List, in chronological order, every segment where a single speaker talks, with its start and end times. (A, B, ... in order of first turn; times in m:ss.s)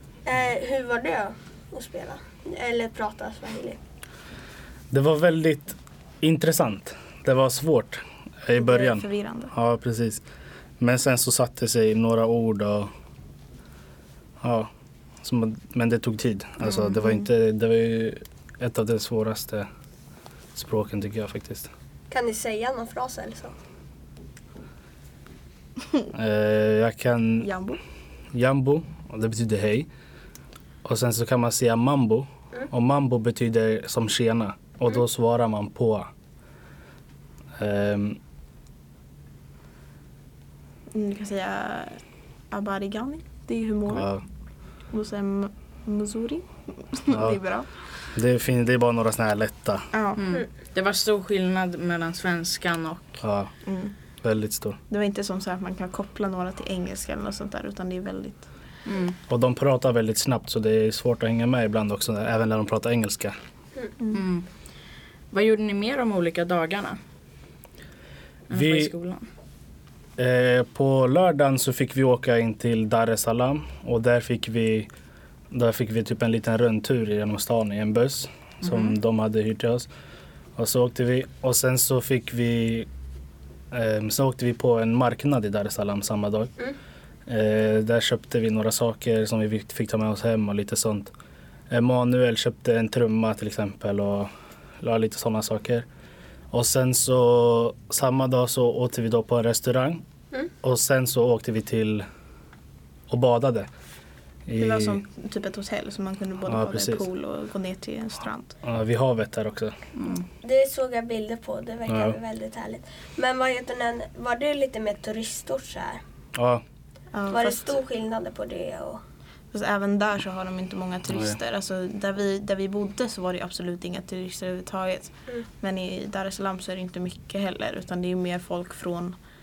0:00.2-0:03.8 A
0:04.9-0:10.2 B
0:08.6-0:09.5 C
0:10.8-0:12.9 B
0:14.4-0:14.7 B
0:15.2-0:19.7 B
0:20.5-0:21.7 B
0:22.1-0:23.5 A
0:26.1-0:27.5 B
0:27.4-0:27.8 C
0:28.3-0:29.9 B
0:30.8-0:36.1 B
0:37.6-0:38.2 B
0:40.9-0:44.1 C
0:43.9-0:44.2 B
0:44.9-0:47.7 C
0:47.1-0:47.4 B
0:48.1-0:49.9 B
0:49.9-0:50.2 C
0:50.2-0:53.2 D
0:53.2-0:53.5 B
0:53.6-0:53.9 C
0:54.2-0:54.8 B
0:54.9-0:58.5 C
0:58.8-0:59.2 D
0:59.3-1:03.3 B
1:04.1-1:04.4 D
1:05.3-1:07.0 D
1:08.5-1:09.2 D
1:08.5-1:08.9 B
1:10.2-1:14.9 B
1:15.5-1:19.9 B
1:18.6-1:18.9 D
1:20.6-1:22.9 B
1:23.7-1:26.5 B
1:27.3-1:31.1 B
1:31.7-1:35.8 B
1:36.5-1:40.0 B
1:40.6-1:42.0 B
1:43.1-1:43.7 B
1:44.4-1:45.0 B
1:44.6-1:48.5 C
1:46.4-1:47.0 B
1:48.6-1:49.7 B
1:50.0-1:50.2 D
1:50.4-1:56.0 A
1:51.9-1:52.2 B
1:56.3-1:56.6 B
1:57.1-1:57.7 C
1:57.3-1:59.0 A
1:59.5-2:09.2 C
2:01.1-2:01.4 B